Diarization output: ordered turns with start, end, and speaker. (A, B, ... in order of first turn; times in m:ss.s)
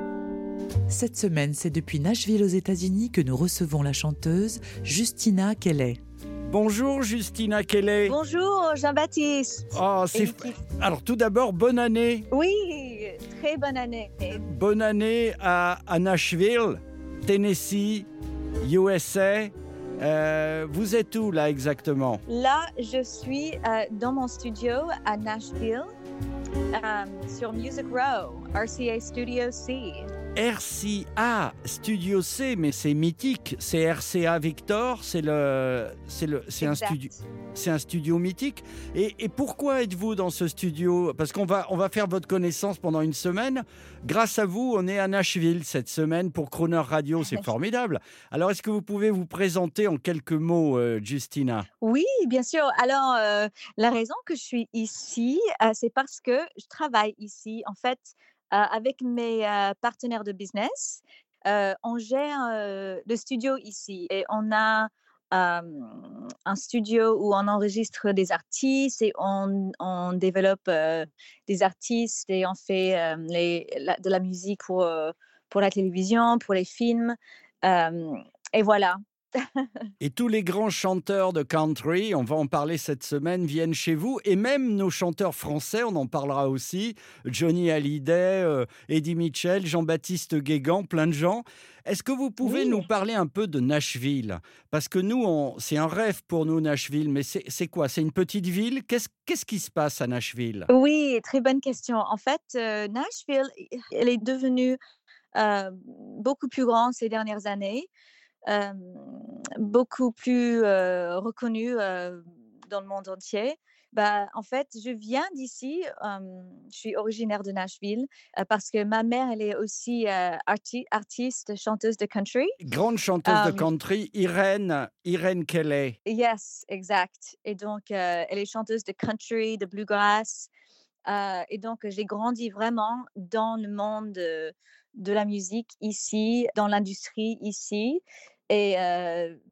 0:00.9-0:06.0 A
0:06.5-0:08.2 B
0:08.0-0:10.6 C
0:09.7-0:12.3 B
0:12.3-0:14.4 C
0:14.3-0:18.1 B
0:18.6-0:22.2 B
0:22.3-0:25.9 C
0:26.7-0:30.1 C
0:30.4-0:51.6 B
0:36.6-0:37.2 C
0:51.8-1:19.7 C
1:20.0-1:40.7 B
1:32.4-1:32.8 C
1:40.7-1:44.8 C
1:45.4-1:47.9 C
1:48.5-2:02.5 C
2:02.6-2:06.0 B
2:03.2-2:03.7 C
2:06.0-2:10.5 C
2:11.1-2:19.4 C